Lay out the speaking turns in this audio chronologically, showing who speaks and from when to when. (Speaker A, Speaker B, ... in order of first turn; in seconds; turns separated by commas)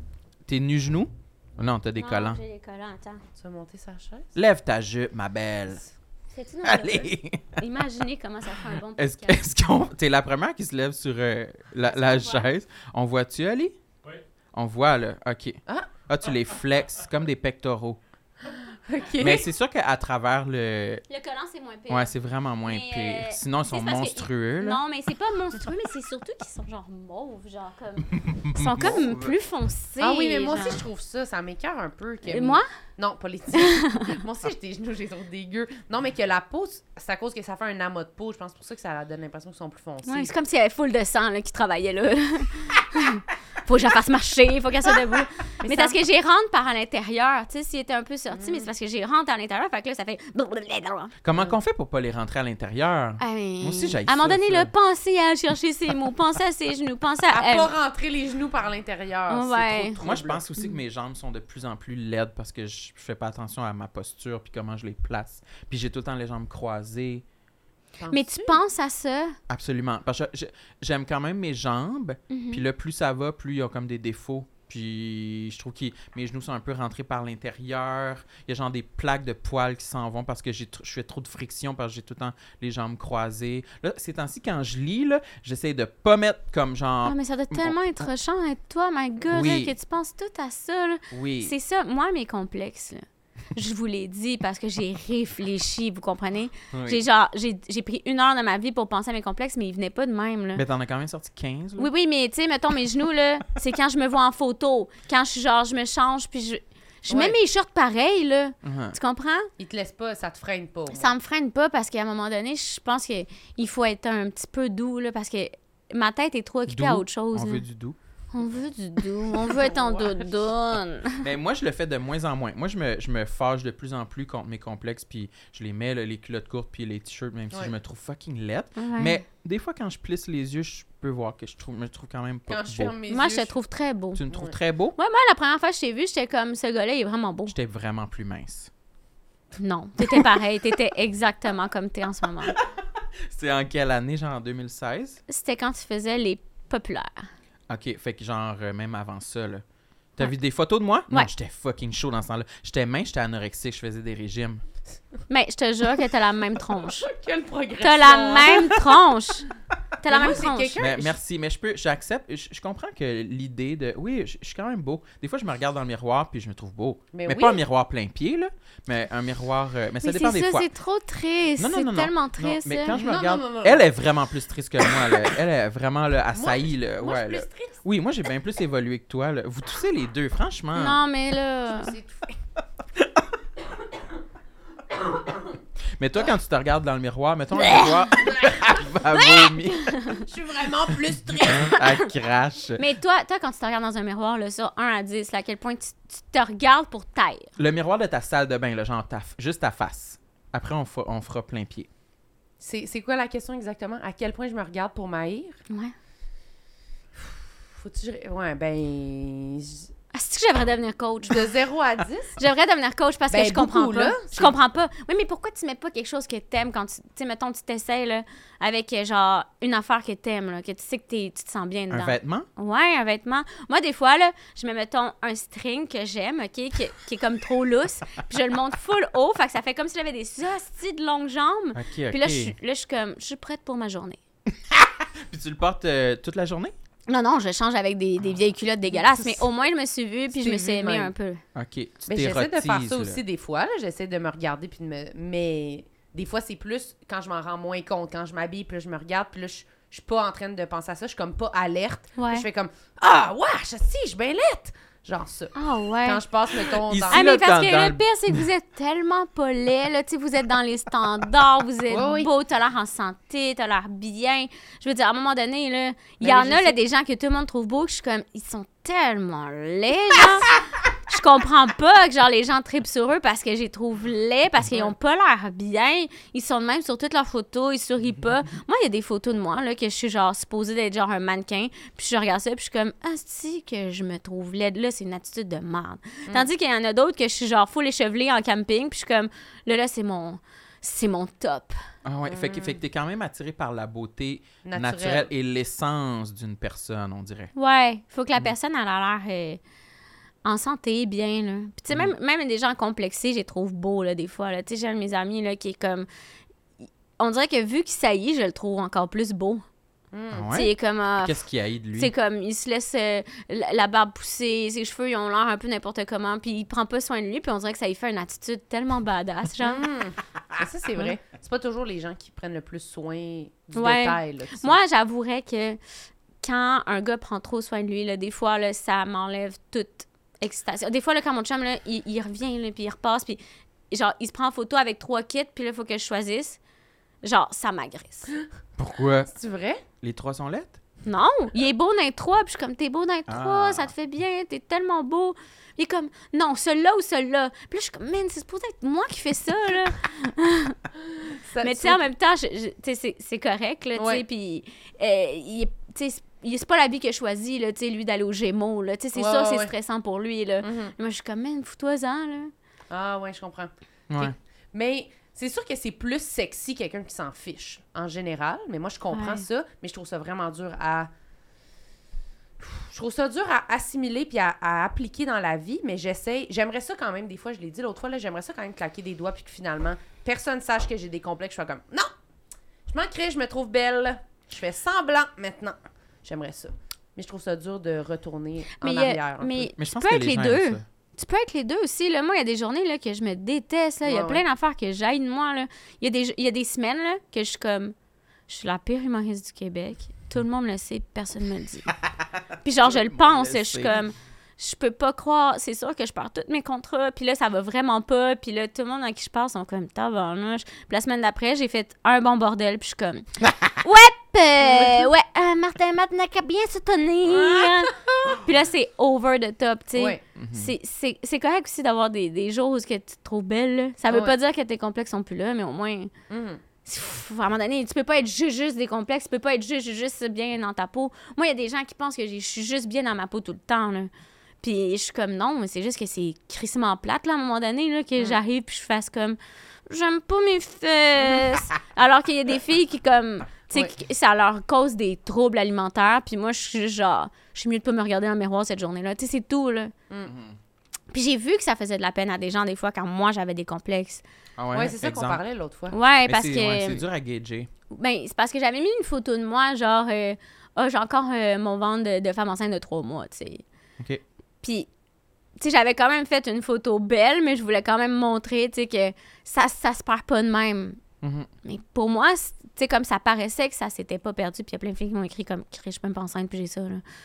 Speaker A: 0.5-2.4, Speaker B: 2.0-3.2, Speaker C: 3.4-4.3, Speaker A: 4.3-5.8, Speaker B: 6.3-9.4, Speaker A: 6.6-7.6, Speaker A: 9.0-13.8, Speaker B: 11.9-12.5, Speaker A: 14.5-18.0, Speaker C: 18.9-19.5, Speaker A: 19.2-21.0, Speaker B: 21.1-22.1, Speaker A: 21.9-24.8, Speaker B: 22.6-30.8, Speaker A: 28.1-29.3, Speaker C: 30.0-40.3, Speaker B: 32.3-32.7, Speaker B: 33.6-34.1, Speaker B: 40.0-51.1, Speaker C: 45.6-46.0, Speaker C: 48.3-48.7, Speaker A: 51.2-54.7, Speaker B: 53.2-57.7, Speaker C: 57.3-60.5, Speaker B: 59.3-60.0, Speaker A: 60.0-67.2, Speaker C: 68.0-68.6, Speaker B: 68.1-69.4, Speaker A: 69.5-87.8, Speaker B: 72.3-72.6, Speaker B: 87.0-100.6, Speaker A: 89.3-89.8, Speaker A: 91.1-91.5, Speaker A: 96.7-97.0, Speaker A: 100.5-101.9, Speaker B: 101.8-109.5, Speaker C: 107.1-107.4, Speaker A: 108.6-109.0, Speaker C: 109.6-111.1, Speaker B: 110.9-117.6, Speaker A: 116.7-118.0, Speaker B: 118.3-121.3, Speaker C: 119.5-120.2, Speaker A: 121.2-132.9, Speaker B: 128.8-129.2, Speaker C: 132.5-133.6, Speaker B: 133.1-134.2, Speaker A: 134.2-135.0, Speaker B: 135.0-137.6, Speaker A: 137.5-138.7, Speaker B: 139.6-142.6, Speaker A: 143.3-145.2, Speaker B: 145.3-147.3, Speaker A: 147.7-149.6, Speaker A: 150.2-154.6, Speaker B: 155.3-157.1, Speaker C: 157.0-158.8, Speaker B: 157.8-159.5, Speaker B: 160.0-160.9, Speaker C: 160.1-161.1, Speaker A: 160.8-170.7, Speaker C: 167.1-167.6, Speaker B: 170.0-173.0, Speaker A: 171.6-181.0, Speaker C: 172.9-173.8, Speaker C: 176.3-177.8, Speaker B: 180.8-181.9, Speaker C: 181.7-182.4, Speaker A: 186.0-190.2, Speaker B: 187.6-188.1, Speaker B: 189.1-190.2, Speaker C: 190.2-191.8, Speaker A: 191.5-192.8, Speaker B: 192.8-197.5, Speaker A: 197.6-201.9, Speaker C: 202.6-205.6, Speaker C: 207.2-209.9, Speaker B: 210.1-211.5, Speaker C: 211.3-212.4, Speaker B: 212.4-234.2, Speaker C: 213.3-214.6, Speaker A: 221.9-222.5, Speaker A: 231.7-232.6, Speaker A: 234.5-236.7, Speaker B: 237.1-241.4, Speaker C: 238.9-239.4, Speaker C: 240.3-241.1, Speaker A: 241.6-243.2, Speaker C: 242.1-257.3, Speaker B: 252.2-252.5, Speaker B: 255.6-256.2, Speaker A: 256.9-258.4, Speaker B: 257.1-270.6, Speaker C: 261.9-262.3, Speaker C: 266.2-266.8, Speaker B: 271.1-291.8, Speaker A: 292.0-297.5, Speaker C: 292.3-292.8, Speaker C: 294.6-295.3, Speaker B: 297.6-299.6, Speaker B: 300.4-306.1, Speaker B: 307.2-309.6, Speaker C: 310.1-310.5, Speaker A: 310.3-312.1, Speaker B: 310.5-311.4, Speaker B: 312.0-319.9, Speaker C: 319.6-324.8, Speaker B: 323.8-325.8, Speaker B: 326.4-333.4, Speaker B: 333.9-336.6, Speaker B: 337.2-338.3, Speaker A: 338.8-339.3, Speaker C: 339.3-339.8, Speaker A: 340.0-340.8, Speaker B: 341.1-350.8, Speaker A: 343.3-343.9, Speaker C: 351.2-352.0, Speaker B: 351.6-362.5, Speaker C: 354.0-354.2, Speaker C: 359.1-359.7, Speaker C: 360.6-360.9, Speaker C: 362.9-371.1, Speaker A: 364.1-364.4, Speaker B: 369.1-369.4, Speaker C: 372.6-382.1, Speaker C: 382.9-389.7, Speaker B: 388.8-397.9, Speaker A: 389.8-390.8, Speaker C: 394.1-394.4, Speaker B: 398.5-401.9, Speaker B: 402.6-426.1, Speaker A: 402.8-404.0, Speaker C: 417.3-418.4, Speaker A: 420.4-420.8, Speaker C: 424.1-424.4, Speaker C: 426.3-426.6, Speaker B: 426.9-434.1, Speaker B: 434.6-449.9, Speaker A: 450.3-450.6, Speaker B: 451.1-454.2, Speaker A: 454.6-455.4, Speaker C: 454.7-456.0, Speaker B: 455.9-457.0, Speaker A: 456.2-457.7, Speaker B: 457.9-463.6, Speaker B: 464.6-464.9, Speaker B: 465.6-471.0, Speaker A: 471.2-471.5, Speaker B: 471.6-477.0